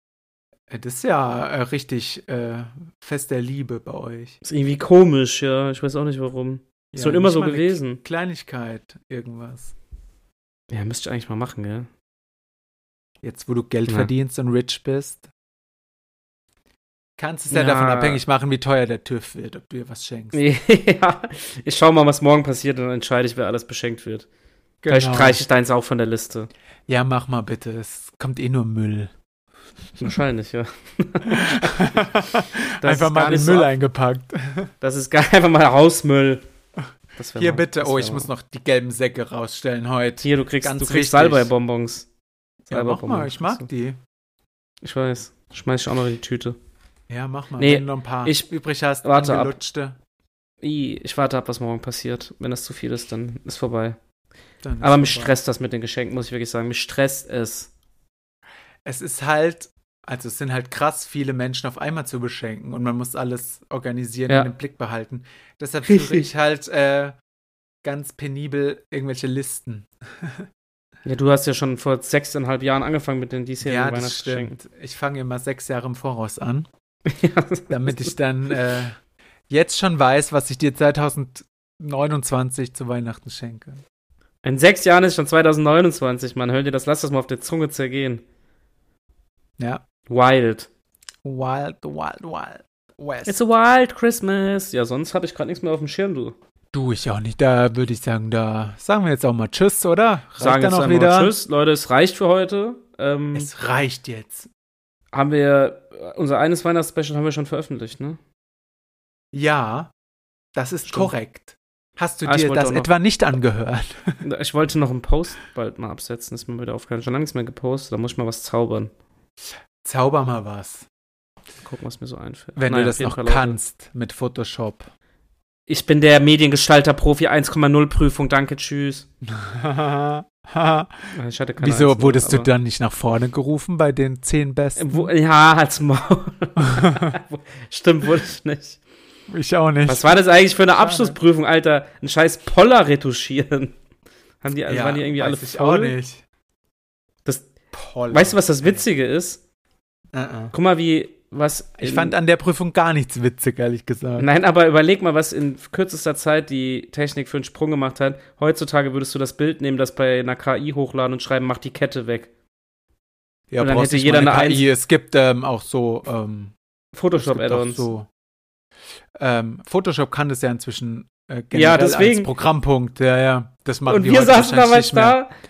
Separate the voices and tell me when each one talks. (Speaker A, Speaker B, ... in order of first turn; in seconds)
Speaker A: 0.7-4.4, 6.9-9.7, 13.2-15.3, 17.2-20.4, 24.8-25.4, 26.9-29.1, 31.3-34.7, 37.4-41.5, 42.7-44.0, 47.1-50.0, 54.6-55.4, 58.8-67.1, 67.8-70.4, 73.6-76.7, 77.7-79.0, 79.5-83.8, 91.2-93.4, 96.7-101.3, 103.3-104.5, 109.3-109.9, 110.5-114.2, 119.8-120.8, 122.5-124.9, 129.2-135.1, 136.6-137.2, 139.3-140.2, 140.8-141.2, 144.7-146.2, 147.7-148.8, 150.1-150.5, 151.8-154.3, 163.5-166.5, 167.1-168.1, 169.2-175.2
Speaker B: 4.4-8.0, 10.7-11.9, 17.5-18.2, 20.3-24.2, 24.9-26.5, 30.0-32.1, 32.8-33.7, 34.8-36.4, 37.1-38.3, 40.2-42.1, 42.7-43.7, 44.8-46.6, 47.6-48.5, 49.0-49.5, 50.6-54.0, 54.8-57.7, 65.9-66.3, 71.0-74.6, 77.0-78.1, 84.4-88.2, 90.1-90.7, 93.2-96.3, 100.4-103.5, 105.1-108.2, 112.2-112.9, 114.2-118.9, 121.6-123.6, 125.7-129.1, 131.1-132.5, 134.8-138.8, 139.9-143.7, 144.4-145.9, 148.1-149.4, 150.5-152.1, 154.2-162.3, 163.6-164.6, 166.9-167.9, 171.5-172.3, 173.9-175.3